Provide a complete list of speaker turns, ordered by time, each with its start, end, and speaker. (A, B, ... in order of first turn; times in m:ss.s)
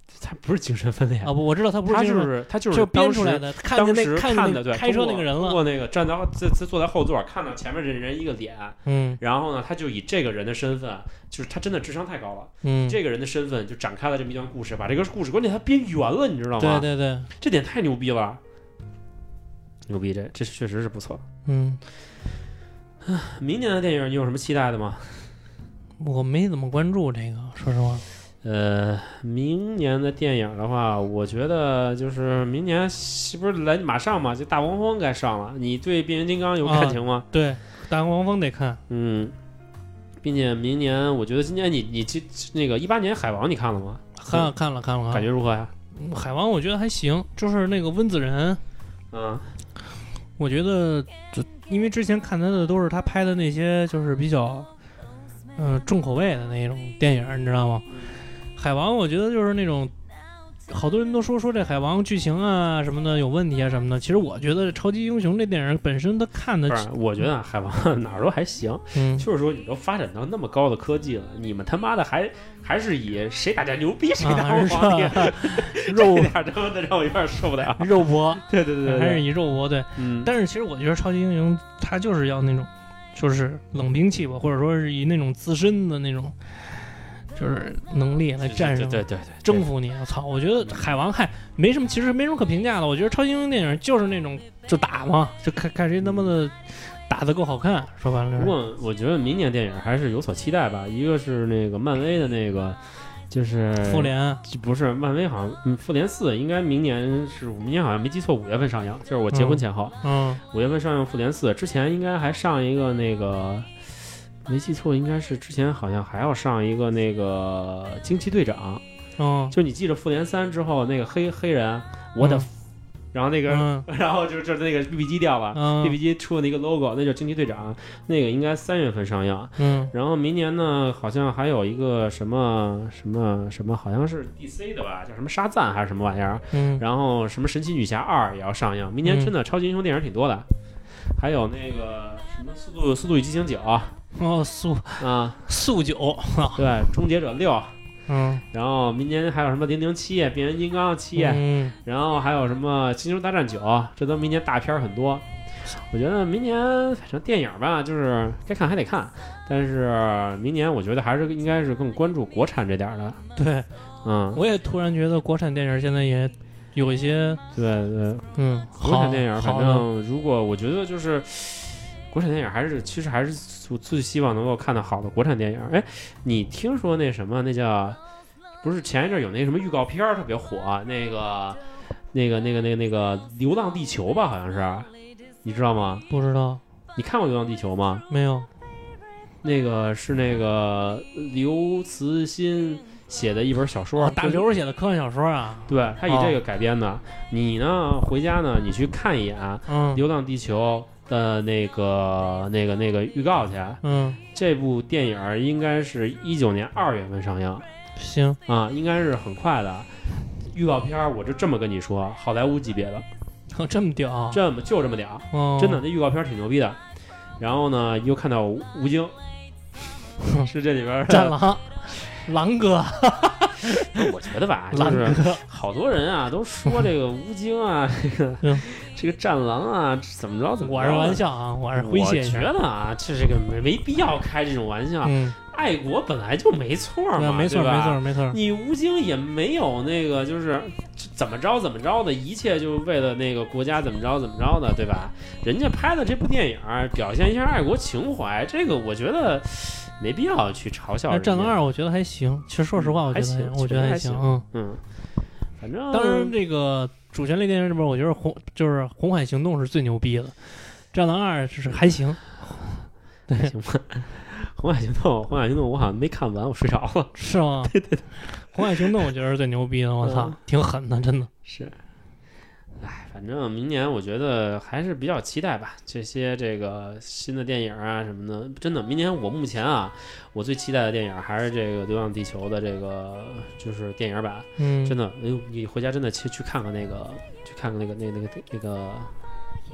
0:00.1-0:16.9 A
0:01.2-0:05.6 B
0:08.8-0:09.2 B
0:12.6-0:13.0 B
0:16.6-0:17.3 B
0:17.4-0:18.4 A
0:19.9-0:21.2 A
0:21.4-0:21.8 B
0:23.0-0:25.3 A
0:26.0-0:28.0 B
0:28.4-0:37.2 A
0:36.6-0:38.8 B
0:38.9-0:39.3 A
0:40.2-0:44.5 A
0:44.2-0:45.2 B
0:45.1-0:45.7 A
0:45.9-0:48.6 B
0:49.1-0:49.5 A
0:50.4-0:54.7 B
0:55.6-0:57.9 B
0:57.9-0:58.2 A
0:58.6-0:59.9 B
1:00.7-1:06.8 B
1:06.7-1:19.2 A
1:08.9-1:09.3 B
1:14.2-1:16.3 B
1:17.8-1:38.5 B
1:20.0-1:20.3 A
1:28.4-1:29.7 A
1:36.0-1:36.3 A
1:38.4-1:58.8 A
1:43.8-1:44.4 B
1:49.3-1:50.4 B
1:59.2-1:59.6 B
1:59.5-2:02.5 A
2:02.2-2:02.5 B
2:03.1-2:20.5 A
2:03.5-2:03.8 B
2:05.5-2:06.0 B
2:09.6-2:09.9 B
2:16.5-2:16.8 B
2:19.0-2:19.3 B
2:21.0-2:23.9 A
2:24.1-2:26.6 B
2:25.0-2:25.4 A
2:26.5-2:27.8 A
2:28.1-2:28.4 B
2:28.5-2:43.2 A
2:31.1-2:31.8 B
2:43.4-2:43.7 B
2:44.0-2:44.4 A
2:44.3-2:47.4 B
2:47.5-2:58.0 A
2:48.4-2:49.8 B
2:58.6-3:01.6 A
3:02.1-3:04.9 A
3:05.4-3:06.0 A
3:06.1-3:06.6 B
3:06.9-3:08.0 A
3:08.1-3:08.5 B
3:09.4-3:14.5 A
3:14.0-3:16.4 B
3:15.7-3:23.8 A
3:19.7-3:20.0 B
3:23.8-3:24.2 B
3:24.3-3:27.6 A
3:28.0-3:28.4 B
3:28.4-3:29.9 A
3:30.4-3:33.0 A
3:33.5-3:34.4 B
3:34.3-3:36.8 A
3:35.3-3:35.8 B
3:37.4-3:39.1 A
3:40.2-3:40.5 B
3:40.4-3:41.4 A
3:41.1-3:44.0 B
3:43.9-4:11.6 A
3:44.7-3:45.4 B
3:50.6-3:52.5 B
3:55.0-3:55.4 B
3:57.2-3:58.4 B
4:11.1-4:14.4 B
4:12.7-4:14.8 A
4:15.6-4:16.3 A
4:15.9-4:23.5 B
4:23.4-4:29.0 A
4:27.1-4:31.3 B
4:30.0-4:30.4 A
4:31.4-4:31.8 A
4:32.8-4:49.1 A
4:44.6-4:45.0 B